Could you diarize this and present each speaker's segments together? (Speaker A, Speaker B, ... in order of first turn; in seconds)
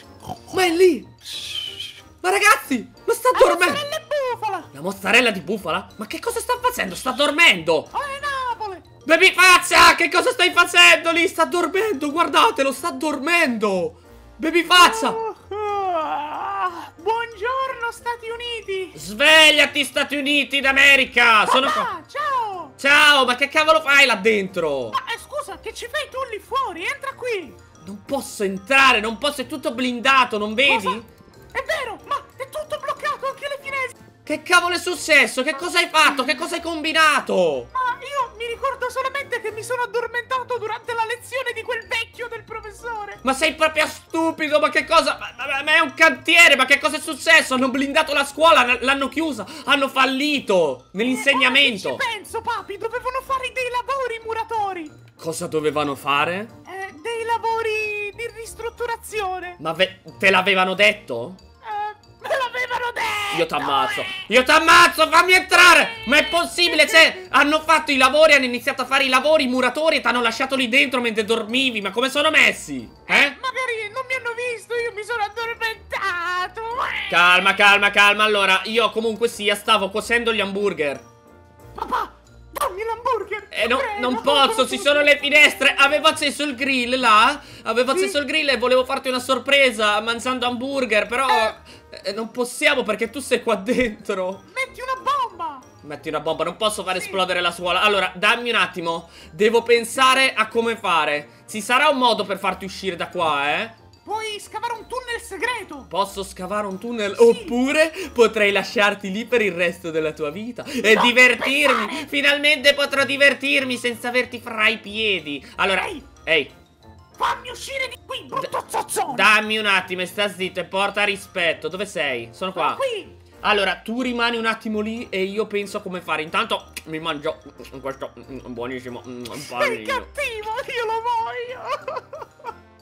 Speaker A: 0.5-1.1, 2.2-3.8, 4.7-7.9, 9.1-15.2, 18.9-21.9, 22.8-25.0, 27.8-31.1, 34.3-37.7, 43.2-52.0, 55.2-56.5, 59.6-61.4, 63.3-73.4, 77.1-81.0, 83.5-94.4, 95.8-103.8, 105.9-116.5, 119.1-122.8, 123.4-130.1
Speaker B: 3.3-4.7, 7.9-8.8, 14.8-19.0, 21.5-22.8, 24.9-27.6, 30.6-31.0, 31.5-34.0, 37.7-43.2, 51.1-55.0, 56.7-59.6, 61.6-64.2, 65.5-67.1, 73.1-77.5, 81.8-85.1, 87.9-88.2, 91.3-91.5, 94.5-95.7, 96.9-97.2, 99.9-100.2, 104.0-105.9, 107.1-107.6, 110.8-112.1, 115.8-116.0, 117.2-119.3, 122.5-123.2, 129.3-132.3